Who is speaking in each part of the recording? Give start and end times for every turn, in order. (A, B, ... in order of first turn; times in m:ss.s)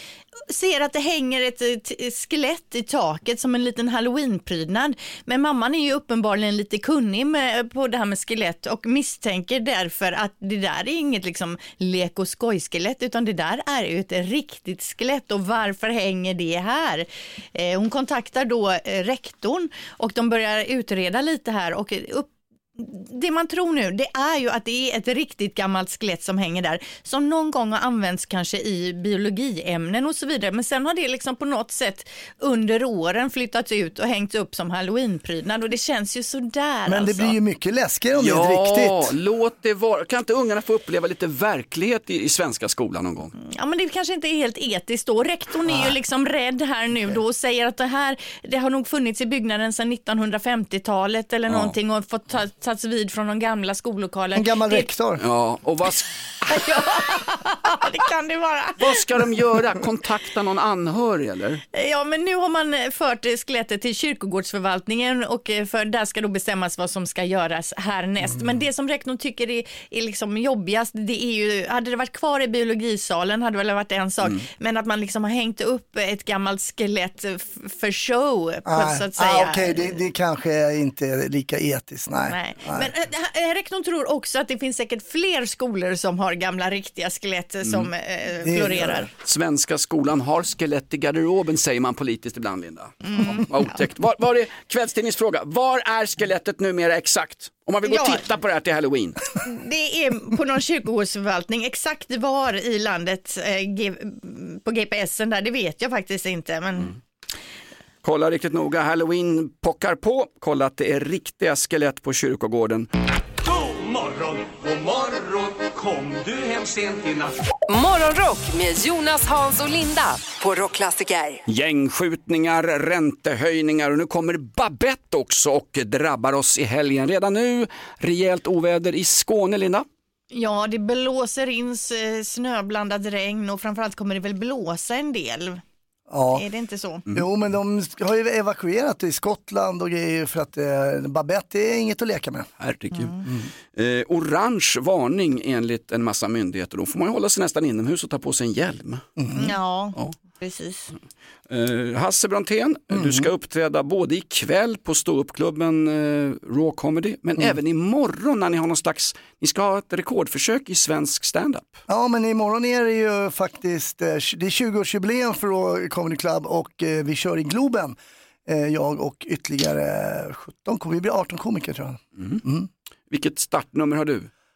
0:00.5-0:37.4 A
0:36.9-0:39.1 B
0:38.2-0:43.3 C
0:43.4-0:54.9 A
0:51.5-0:51.8 C
0:54.3-0:55.2 B
0:55.2-0:56.1 C
0:56.5-0:59.0 A
0:58.8-1:01.6 C
1:01.7-1:20.0 A
1:18.6-1:22.9 B
1:22.3-1:29.1 A
1:27.6-1:27.9 C
1:28.4-1:29.1 B
1:29.2-1:39.2 C
1:33.0-1:33.8 A
1:37.8-1:38.2 A
1:39.4-1:46.9 A
1:48.0-1:52.9 C
1:53.4-1:57.4 D
1:57.7-2:01.4 E
2:01.5-2:09.8 C
2:10.3-2:15.6 A
2:16.1-2:16.4 B
2:16.3-2:17.0 A
2:17.1-2:22.5 B
2:22.6-2:29.0 C
2:29.2-2:29.5 B
2:29.3-2:30.9 A
2:31.5-2:41.8 C
2:32.9-2:33.3 B
2:41.9-2:52.7 B
2:53.1-2:54.3 C